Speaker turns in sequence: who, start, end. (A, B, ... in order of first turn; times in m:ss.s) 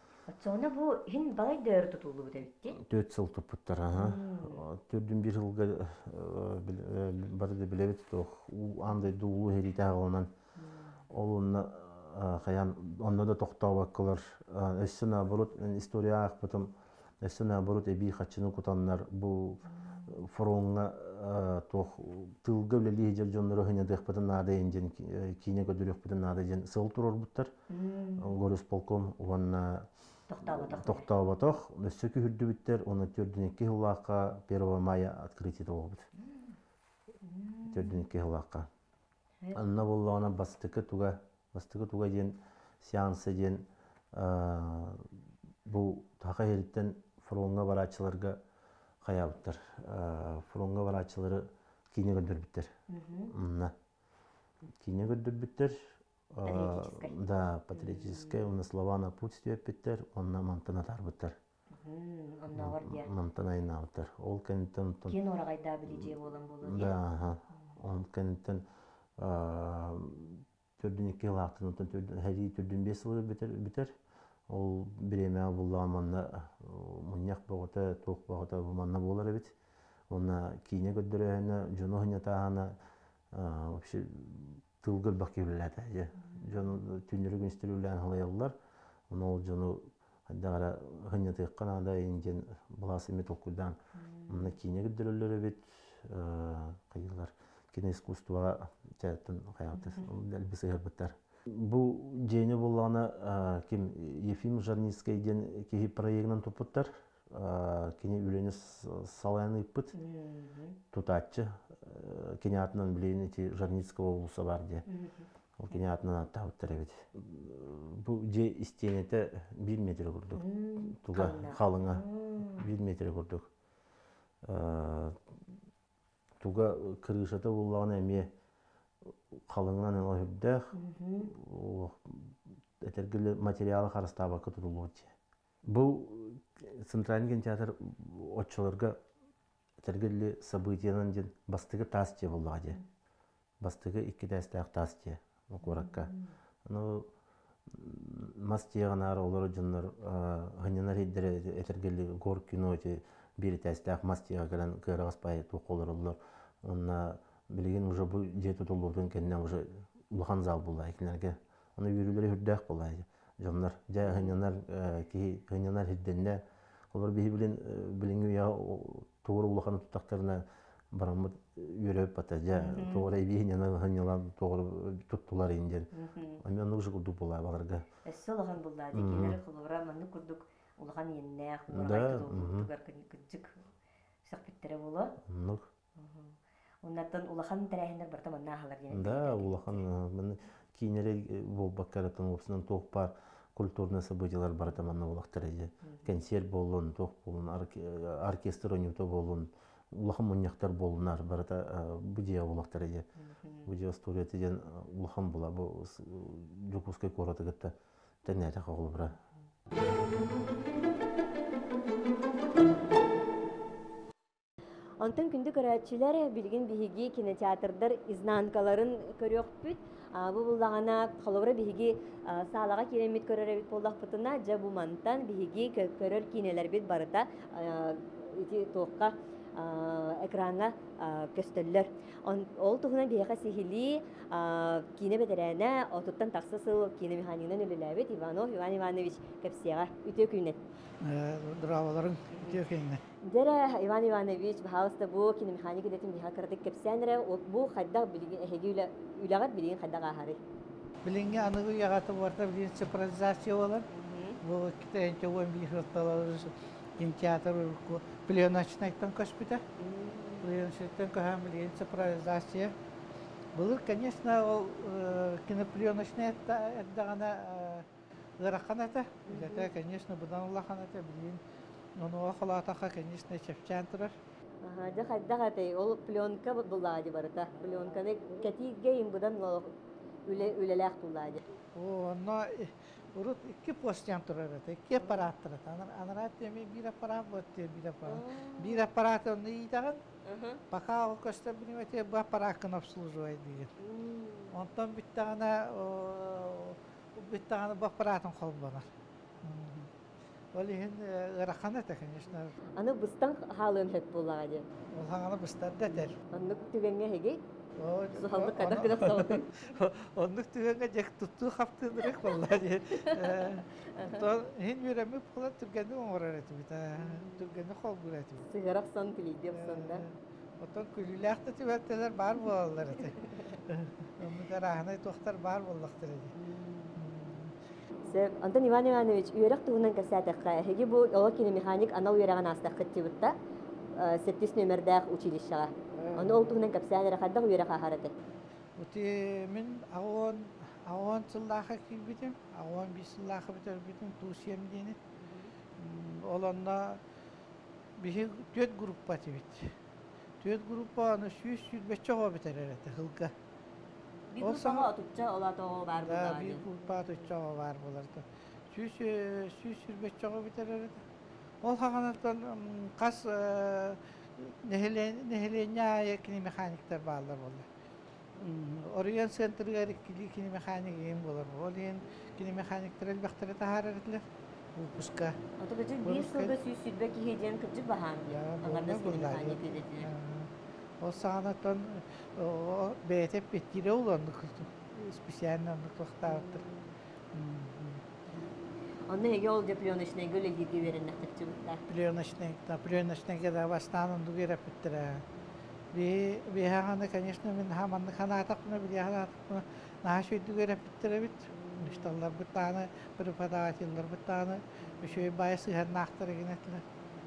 0:00.3-0:02.8 A
0:02.7-0:10.3 B
0:03.9-0:04.6 A
0:10.6-0:11.0 A
0:11.1-0:27.5 B
0:19.7-0:20.1 A
0:27.7-0:28.3 A
0:28.2-0:29.9 B
0:30.3-0:31.0 A
0:30.4-0:36.0 B
0:36.2-0:36.6 A
0:37.2-0:38.0 A
0:37.7-0:38.7 B
0:39.5-0:45.1 B
0:45.6-0:48.4 B
0:49.0-0:52.7 B
0:52.9-0:53.3 A
0:53.3-0:53.7 B
0:54.7-0:55.8 B
0:56.3-1:01.3 B
0:56.5-0:57.1 A
0:57.8-0:58.4 A
1:01.7-1:03.1 A
1:02.5-1:05.2 B
1:05.1-1:06.9 A
1:05.8-1:08.6 B
1:09.2-1:13.9 B
1:14.5-1:19.5 B
1:20.1-1:22.7 B
1:23.3-1:28.6 B
1:29.1-1:33.8 B
1:34.0-1:34.5 A
1:34.3-1:49.9 B
1:49.9-1:50.8 A
1:50.9-1:54.8 B
1:54.9-1:55.3 A
1:55.6-2:03.5 B
2:00.4-2:02.7 A
2:04.4-2:05.2 B
2:06.4-2:08.3 B
2:09.3-2:15.1 B
2:10.7-2:11.3 A
2:15.7-2:19.0 B
2:19.8-2:22.8 B
2:23.6-2:26.1 B
2:25.6-2:26.3 A
2:26.6-2:27.1 B
2:27.7-2:46.4 B
2:44.0-2:44.3 A
2:46.9-2:57.8 B
2:52.5-2:53.0 A
2:55.9-2:56.4 A
2:58.0-3:03.6 A
2:58.9-2:59.4 B
3:01.7-3:02.7 B
3:04.2-3:05.1 A
3:05.2-3:05.6 B
3:06.0-3:09.8 A
3:08.9-3:23.1 B
3:15.8-3:16.1 A
3:23.2-3:23.7 A
3:23.6-3:29.2 B
3:35.0-4:00.6 A
4:01.0-4:03.0 C
4:03.2-4:10.4 A
4:11.0-4:13.9 C
4:13.9-4:14.4 A
4:14.4-4:19.6 C
4:19.8-4:20.5 A
4:20.4-4:22.7 C
4:23.5-4:27.9 C
4:28.4-4:31.4 C
4:29.3-4:29.7 A
4:32.0-4:34.1 C
4:34.6-4:39.7 A
4:40.3-4:41.4 A
4:41.7-4:50.0 C
4:48.1-4:48.8 A
4:50.2-4:50.6 A
4:50.7-4:53.7 C
4:53.8-4:54.6 A
4:54.5-4:58.9 C
4:59.4-4:59.9 C
5:00.5-5:02.5 C
5:02.8-5:04.7 A
5:04.9-5:06.4 C
5:06.2-5:07.4 A
5:07.8-5:18.5 C
5:08.1-5:09.6 A
5:13.1-5:14.2 A
5:17.0-5:17.5 A
5:18.5-5:20.0 A
5:19.5-5:26.3 C
5:26.3-5:27.0 A
5:26.9-5:27.5 C
5:28.0-5:33.3 A
5:34.0-5:38.1 A
5:36.0-5:36.6 C
5:38.8-5:45.0 C
5:45.2-5:45.5 A
5:45.8-5:47.0 C
5:48.0-5:49.7 C
5:50.4-5:53.3 C
5:54.3-5:56.6 A
5:54.4-5:54.9 C
5:56.0-6:01.0 C
6:01.6-6:07.7 C
6:08.4-6:14.2 C
6:14.7-6:15.4 C
6:15.6-6:20.1 A
6:16.0-6:16.5 C
6:18.3-6:26.6 C
6:26.3-6:26.9 A
6:27.3-6:28.0 C
6:29.1-6:31.8 A
6:31.9-6:35.2 C
6:35.9-6:46.8 C
6:41.6-6:42.1 A
6:44.9-6:45.3 A